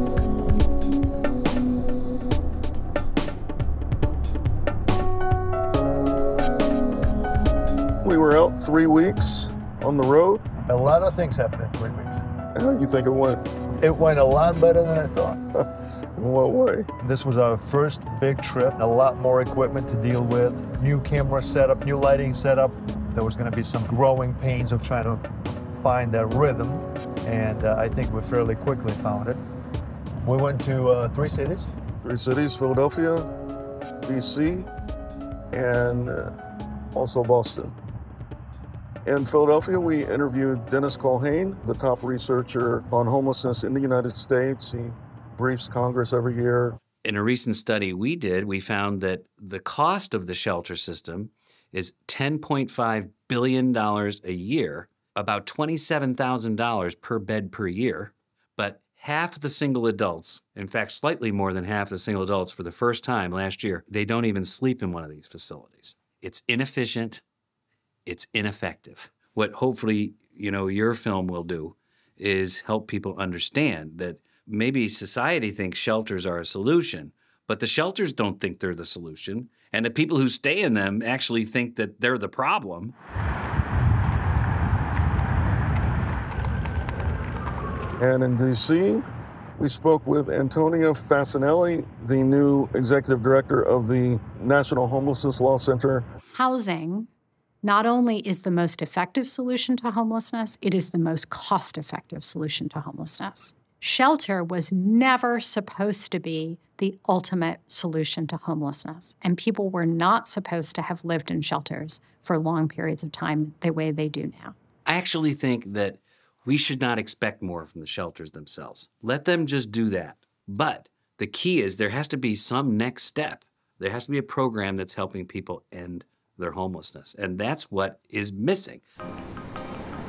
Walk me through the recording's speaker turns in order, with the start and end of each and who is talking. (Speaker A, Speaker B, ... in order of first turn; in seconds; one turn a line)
Speaker A: 8.0-10.4
Speaker B: 10.7-12.2
Speaker A: 12.5-13.4
Speaker B: 13.8-15.4
Speaker A: 16.1-16.9
Speaker B: 17.0-29.4
Speaker B: 30.2-31.7
Speaker A: 32.0-33.3
Speaker A: 34.0-34.7
Speaker A: 35.5-36.3
Speaker A: 36.9-37.8
Speaker A: 39.0-46.8
Speaker C: 47.0-67.2
Speaker C: 68.0-82.9
Speaker A: 88.0-89.0
Speaker A: 89.6-96.0
Speaker D: 96.3-97.1
Speaker D: 97.6-114.5
Speaker C: 114.8-128.8